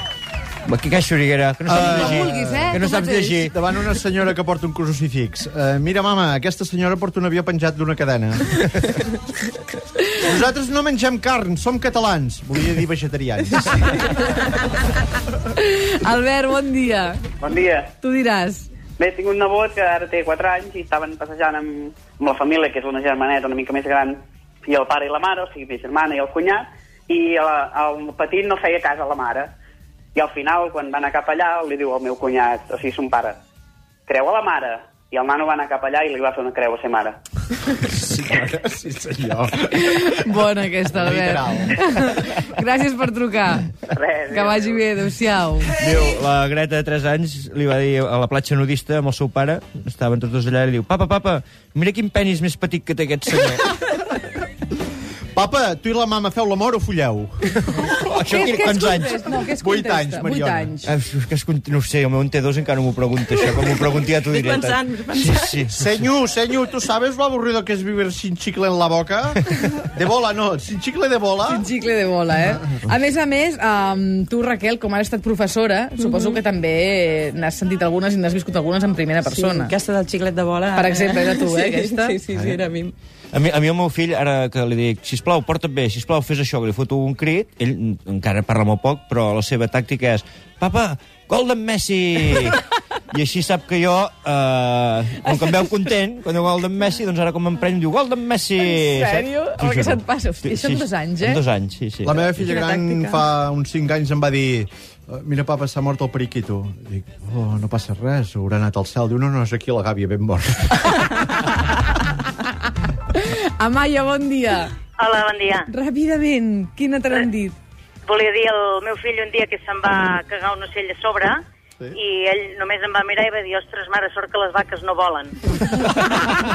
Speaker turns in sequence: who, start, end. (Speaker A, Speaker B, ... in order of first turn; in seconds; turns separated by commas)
Speaker A: 0.7-3.5, Speaker B: 1.7-2.9, Speaker C: 1.7-3.5, Speaker B: 3.5-8.6, Speaker B: 10.2-13.8, Speaker C: 15.6-17.2, Speaker D: 17.4-17.9, Speaker C: 18.0-18.7, Speaker D: 19.0-29.5, Speaker D: 30.1-33.4, Speaker D: 34.1-37.2, Speaker B: 38.0-40.3, Speaker C: 39.7-43.7, Speaker B: 40.9-42.2, Speaker D: 43.9-44.8, Speaker C: 44.3-45.7, Speaker A: 45.8-53.7, Speaker B: 55.3-58.1, Speaker A: 57.6-59.3, Speaker C: 58.3-60.9, Speaker B: 59.6-60.8, Speaker A: 60.9-65.9, Speaker E: 63.3-65.7, Speaker B: 65.8-71.7, Speaker C: 71.5-79.7, Speaker E: 76.0-76.4, Speaker E: 79.2-82.9, Speaker C: 80.7-82.2, Speaker A: 83.3-102.1, Speaker C: 95.2-95.9, Speaker C: 98.6-101.4, Speaker B: 102.0-111.1, Speaker E: 102.2-103.3, Speaker C: 113.1-114.7, Speaker F: 115.0-115.7, Speaker C: 115.7-117.6, Speaker F: 118.1-125.3